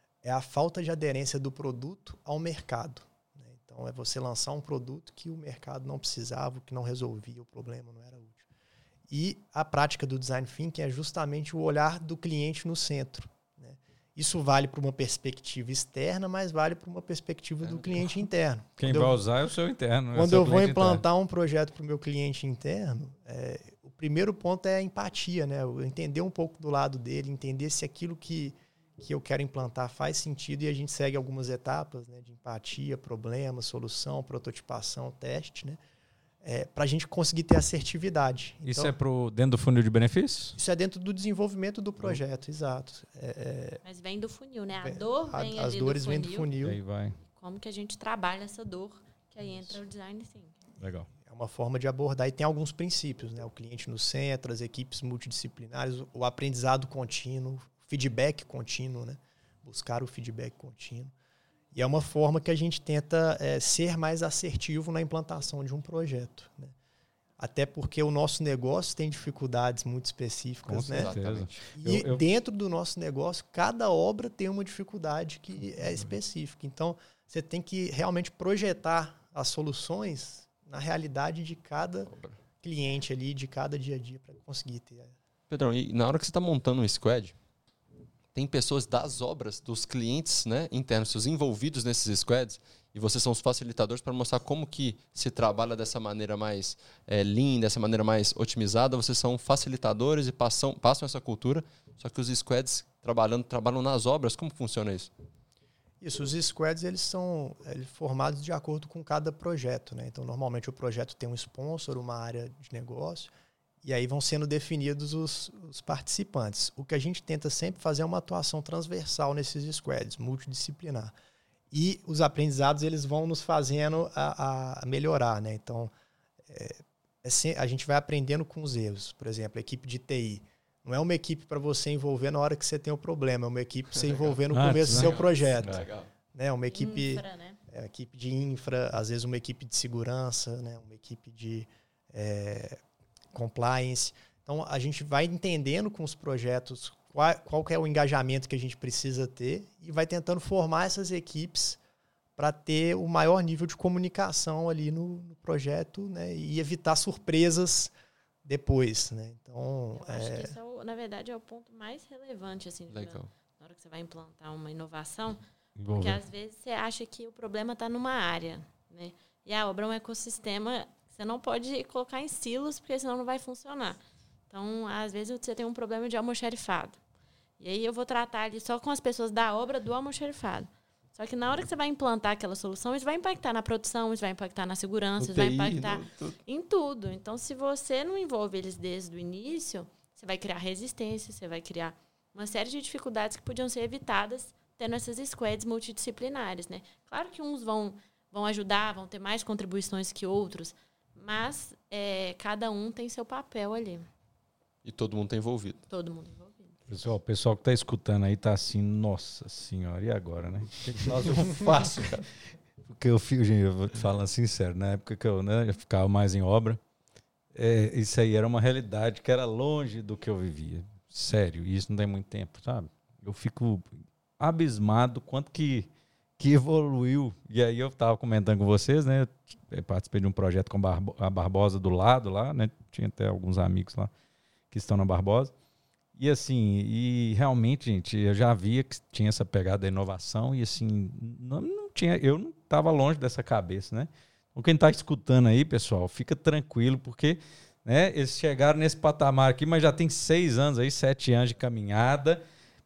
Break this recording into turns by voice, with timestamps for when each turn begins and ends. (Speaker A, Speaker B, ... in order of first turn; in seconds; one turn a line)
Speaker A: 0.2-8.4
Speaker A: 9.1-19.2
Speaker B: 17.6-18.0
Speaker C: 18.8-21.0
Speaker A: 20.1-35.8
Speaker A: 36.4-38.9
Speaker C: 38.6-40.6
Speaker A: 40.6-43.8
Speaker D: 43.8-46.5
Speaker A: 44.8-46.8
Speaker C: 46.6-47.2
Speaker D: 47.2-50.5
Speaker A: 49.4-49.8
Speaker C: 50.8-51.1
Speaker A: 51.2-61.1
Speaker A: 61.7-66.7
Speaker A: 67.4-71.2
Speaker C: 70.7-72.2
Speaker B: 70.8-71.7
Speaker A: 71.8-85.1
Speaker B: 82.1-82.4
Speaker B: 85.5-87.3
Speaker B: 88.3-105.1
Speaker A: 106.0-113.3
Speaker A: 113.8-121.1
Speaker A: 121.7-125.9
Speaker A: 126.5-142.8
Speaker B: 134.0-134.3
Speaker C: 134.5-135.8
Speaker B: 134.9-136.1
Speaker D: 136.7-137.6
Speaker A: 143.3-151.8
Speaker A: 152.4-157.9
Speaker A: 158.4-160.5
Speaker D: 159.9-165.4
Speaker B: 162.9-163.3
Speaker C: 165.8-166.2
Speaker D: 165.9-177.0
Speaker D: 177.6-204.0
Speaker B: 185.2-186.3
Speaker B: 204.8-205.8
Speaker D: 205.9-206.8
Speaker C: 206.9-212.2
Speaker B: 211.4-212.2
Speaker C: 212.9-216.8
Speaker C: 217.5-234.1
Speaker C: 234.7-235.5
Speaker C: 236.2-252.4